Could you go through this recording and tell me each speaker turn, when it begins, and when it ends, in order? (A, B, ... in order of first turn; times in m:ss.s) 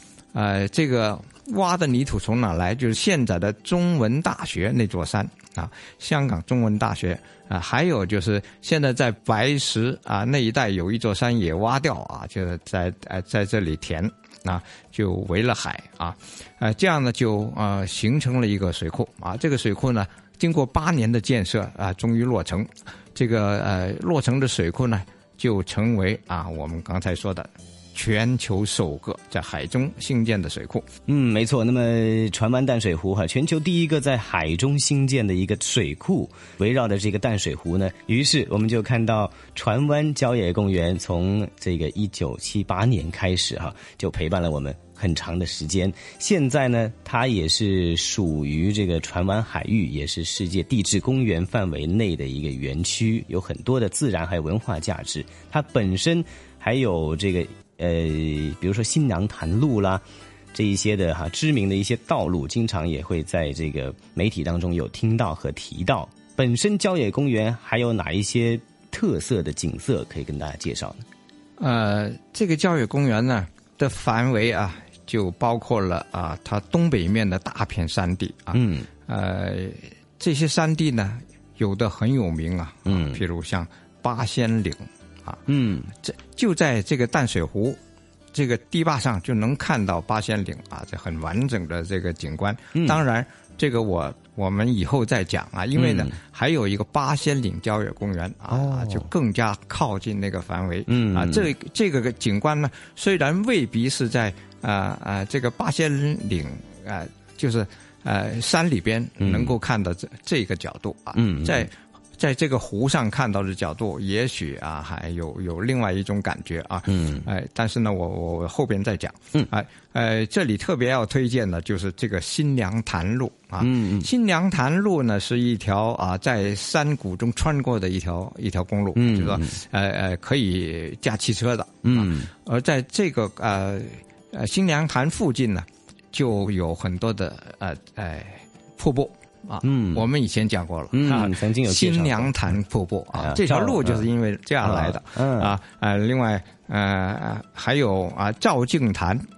0:00.3-0:30.8 A
0:31.1-1:11.0 B
1:11.6-1:25.4 A
1:18.5-1:18.9 B
1:22.9-1:23.2 B
1:25.5-1:25.9 B
1:26.0-1:27.8 A
1:28.3-2:29.2 A
1:32.7-1:33.0 B
1:35.7-1:36.2 B
1:38.5-1:39.1 B
1:40.9-1:41.5 B
1:49.2-1:49.6 B
1:51.2-1:51.7 B
1:56.9-1:57.3 B
2:03.6-2:04.1 B
2:09.0-2:09.6 B
2:11.8-2:12.3 B
2:19.6-2:20.1 B
2:20.9-2:22.6 B
2:23.1-2:24.1 B
2:24.6-2:25.5 B